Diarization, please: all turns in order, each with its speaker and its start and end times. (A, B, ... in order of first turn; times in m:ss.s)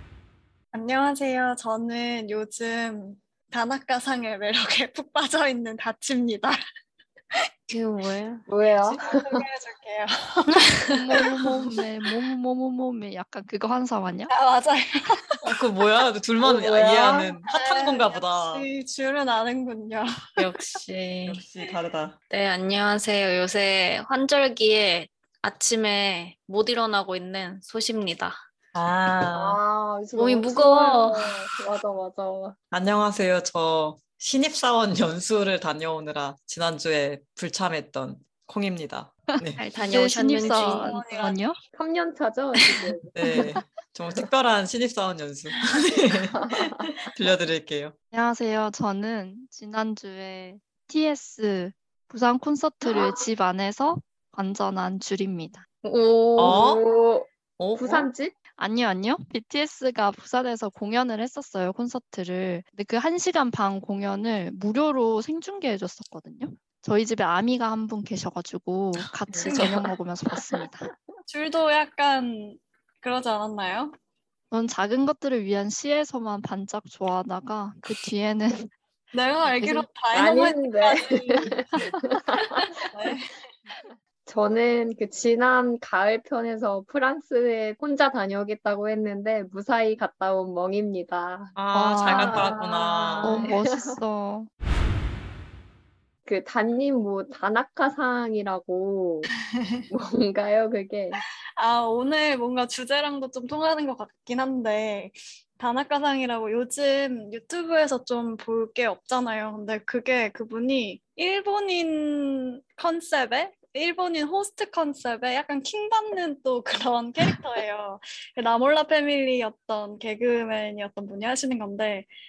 0:00.7-0:06.6 A
0:07.7-0:08.5 B
0:08.5-0:09.4 C
0:09.0-0:11.7 A
0:10.5-0:10.9 B
0:10.9-0:14.3 D
0:14.3-0:15.5 A
0:15.4-0:18.7 E
0:16.4-0:17.3 C
0:17.5-0:20.4 A
0:20.4-0:21.4 B
0:21.3-0:22.2 E
0:22.3-0:28.4 B
0:28.7-0:29.6 E
0:29.3-0:32.6 C
0:30.2-0:31.4 B
0:32.7-0:39.6 E
0:39.3-0:41.6 D
0:39.6-0:41.0 B
0:40.5-0:41.4 A
0:41.7-0:43.1 C
0:43.1-0:48.0 E
0:46.4-0:46.9 C
0:48.1-0:55.6 D
0:52.8-0:53.2 C
0:55.8-0:58.4 C
0:56.4-0:56.8 E
0:57.6-0:58.1 E
0:58.6-1:10.9 D
1:09.4-1:09.7 A
1:11.3-1:13.9 A
1:14.5-1:18.7 D
1:19.1-1:23.3 A
1:19.4-1:19.9 D
1:20.1-1:22.8 C
1:24.3-1:34.0 C
1:31.6-1:33.5 E
1:31.7-1:32.6 D
1:33.2-1:34.5 D
1:36.3-1:39.3 C
1:39.6-1:39.8 A
1:39.9-1:41.2 C
1:41.6-2:02.1 A